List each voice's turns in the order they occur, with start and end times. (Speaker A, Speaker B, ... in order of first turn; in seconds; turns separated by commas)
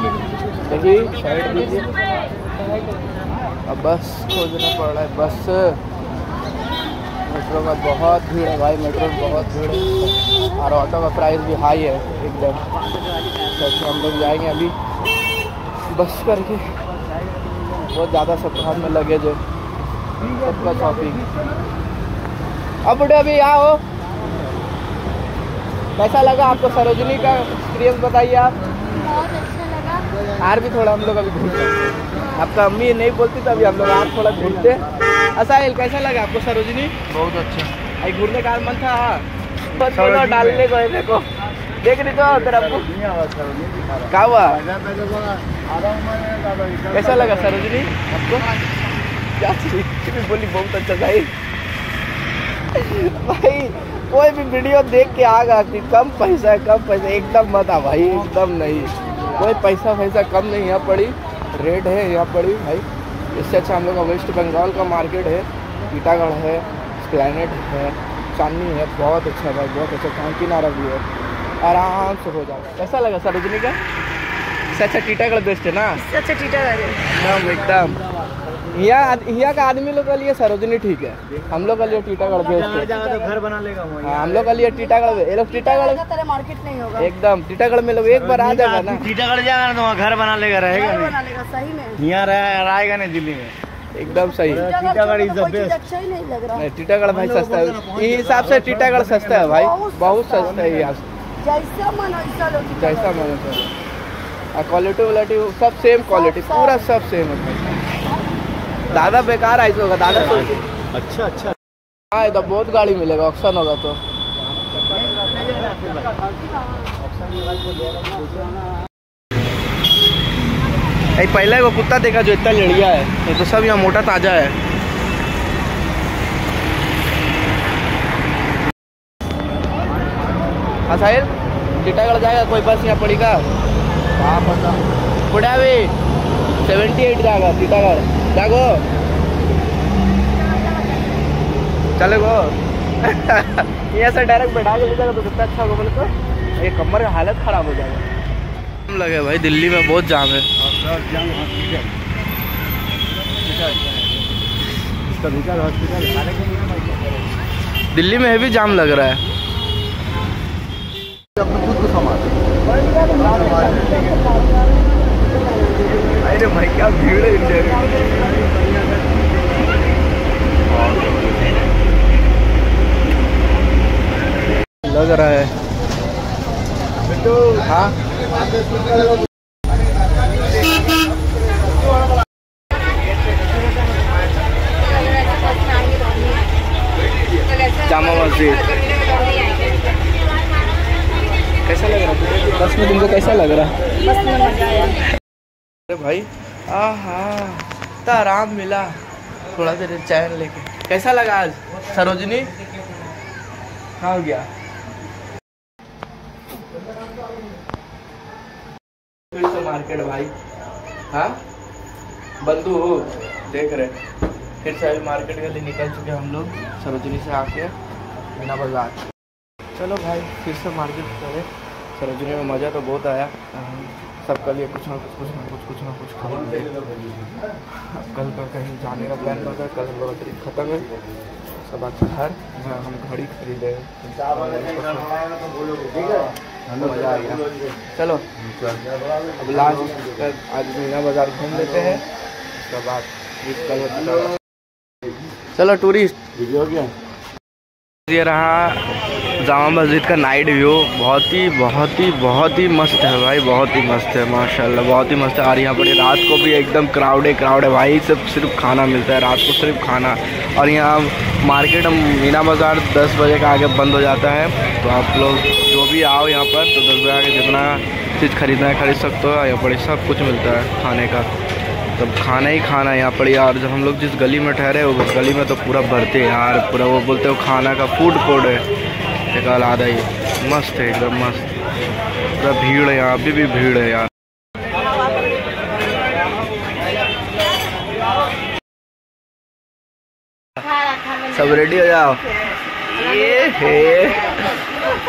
Speaker A: 0.6-1.9, Speaker A: 3.7-5.8, Speaker A: 7.3-12.6, Speaker A: 13.5-14.8, Speaker A: 15.9-16.6, Speaker A: 17.9-19.4, Speaker A: 20.3-21.2, Speaker A: 22.8-23.8, Speaker A: 26.0-28.6, Speaker A: 30.4-34.8, Speaker A: 35.4-37.0, Speaker B: 37.1-37.7, Speaker A: 38.0-41.3, Speaker B: 39.8-40.7, Speaker A: 41.8-42.9, Speaker B: 42.3-47.7, Speaker A: 44.1-44.6, Speaker A: 46.9-48.5, Speaker A: 49.4-51.3, Speaker A: 52.7-71.0, Speaker A: 71.6-73.8, Speaker A: 74.7-76.1, Speaker C: 76.0-77.0, Speaker A: 77.1-78.0, Speaker A: 78.7-83.0, Speaker B: 82.5-84.5, Speaker A: 84.0-86.0, Speaker C: 85.9-87.0, Speaker A: 87.0-89.1, Speaker B: 88.1-91.2, Speaker C: 90.9-92.0, Speaker B: 92.0-93.5, Speaker A: 94.0-94.7, Speaker B: 94.5-95.8, Speaker C: 94.7-96.6, Speaker A: 96.5-101.0, Speaker B: 97.1-99.5, Speaker C: 99.6-100.2, Speaker C: 101.4-102.8, Speaker A: 102.6-103.7, Speaker A: 104.5-107.8, Speaker A: 108.9-110.6, Speaker B: 110.5-111.5, Speaker A: 112.1-114.0, Speaker B: 114.9-116.1, Speaker A: 121.2-124.6, Speaker A: 130.9-133.5, Speaker A: 134.2-135.9, Speaker A: 136.6-138.8, Speaker A: 142.0-148.1, Speaker A: 148.9-150.5, Speaker B: 150.6-151.9, Speaker B: 153.4-154.1, Speaker B: 155.1-157.1, Speaker A: 157.9-159.2, Speaker B: 161.4-162.2, Speaker C: 163.1-163.9, Speaker B: 163.2-164.1, Speaker A: 166.2-168.0, Speaker B: 170.8-171.3, Speaker A: 174.8-175.5, Speaker B: 177.2-177.6, Speaker A: 177.6-177.9, Speaker A: 187.8-189.0, Speaker A: 191.6-193.8, Speaker C: 194.1-194.9, Speaker A: 195.9-198.9, Speaker A: 199.5-202.5, Speaker A: 204.0-204.5, Speaker A: 209.3-210.3, Speaker A: 211.1-211.4, Speaker A: 212.4-214.0, Speaker A: 214.6-217.7, Speaker A: 218.3-219.0, Speaker A: 219.8-226.7, Speaker A: 227.8-230.9, Speaker A: 231.6-235.1, Speaker B: 235.3-236.3, Speaker A: 236.7-238.2, Speaker B: 237.3-237.7, Speaker A: 239.4-242.0, Speaker A: 242.6-244.3, Speaker A: 245.5-246.2, Speaker B: 246.4-246.9, Speaker A: 248.1-248.8, Speaker A: 249.4-271.3, Speaker A: 272.0-278.6, Speaker A: 279.3-281.6, Speaker A: 282.4-284.1, Speaker A: 291.3-292.2, Speaker A: 292.9-294.5